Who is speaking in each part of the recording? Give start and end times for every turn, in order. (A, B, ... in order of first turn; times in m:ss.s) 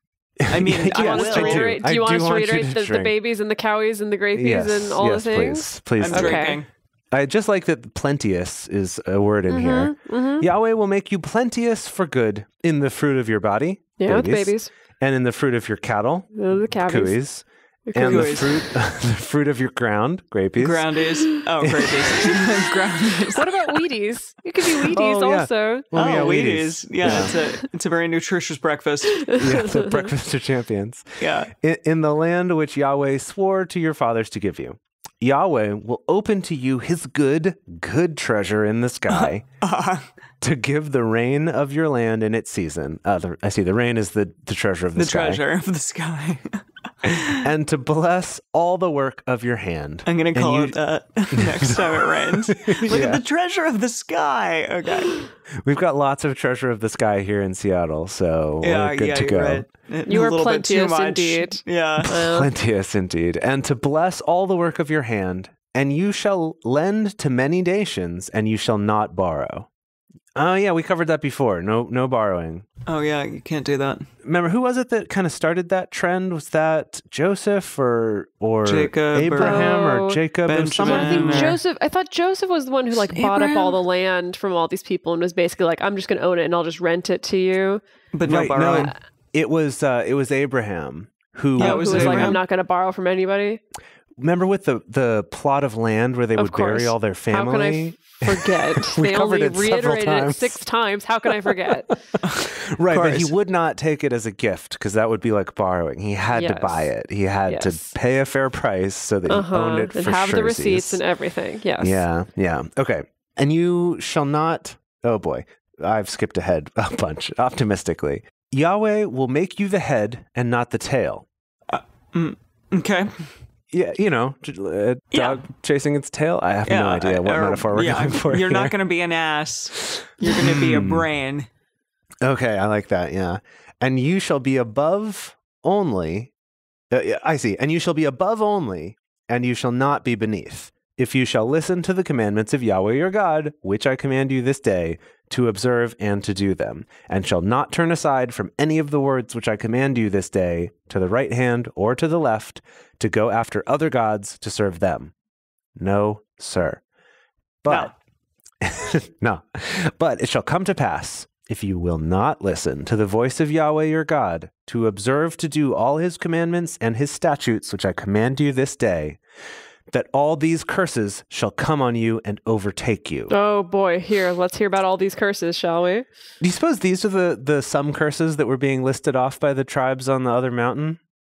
0:00.4-0:03.1 A
0:00.5-0:01.8 B
0:00.9-0:06.6 C
0:04.3-0:06.6 A
0:06.0-0:06.7 B
0:07.1-0:20.9 A
0:09.5-0:10.4 C
0:14.0-0:14.7 C
0:16.3-0:17.2 C
0:17.9-0:18.6 C
0:18.0-0:18.5 B
0:20.6-0:23.6 B
0:21.6-0:22.3 A
0:23.3-0:25.9 C
0:24.8-0:27.3 A
0:25.9-0:29.4 B
0:27.0-0:27.4 C
0:29.2-0:30.1 C
0:29.4-0:39.4 A
0:31.2-0:31.5 B
0:39.1-0:40.0 B
0:40.4-0:45.4 A
0:45.0-0:47.5 B
0:47.0-0:50.8 A
0:50.0-0:55.2 B
0:51.3-0:53.2 A
0:55.6-0:59.6 A
0:58.6-1:02.2 B
1:00.1-1:02.5 C
1:02.1-1:09.7 A
1:10.3-1:12.6 A
1:12.8-1:14.1 B
1:14.2-1:21.6 A
1:18.6-1:19.8 B
1:19.4-1:20.2 C
1:20.5-1:21.6 B
1:20.8-1:27.8 C
1:23.1-1:23.8 B
1:28.1-1:28.9 B
1:28.2-1:32.4 A
1:31.6-1:32.4 B
1:31.6-1:33.6 C
1:34.2-1:40.6 A
1:36.4-1:41.9 C
1:42.2-1:43.3 B
1:42.5-1:51.0 A
1:46.3-1:46.9 C
1:47.5-1:47.9 C
1:49.3-1:52.0 C
1:51.8-2:01.2 A
2:01.7-2:03.3 B
2:03.7-2:08.8 A
2:05.1-2:05.4 B
2:06.6-2:11.5 B
2:09.9-2:11.1 A
2:12.2-2:16.3 A
2:16.9-2:35.1 A
2:35.8-2:36.8 A
2:37.6-2:37.9 A
2:37.7-2:37.9 B
2:38.6-2:49.2 A
2:49.9-2:53.3 A
2:53.3-2:56.0 C
2:56.4-3:01.0 A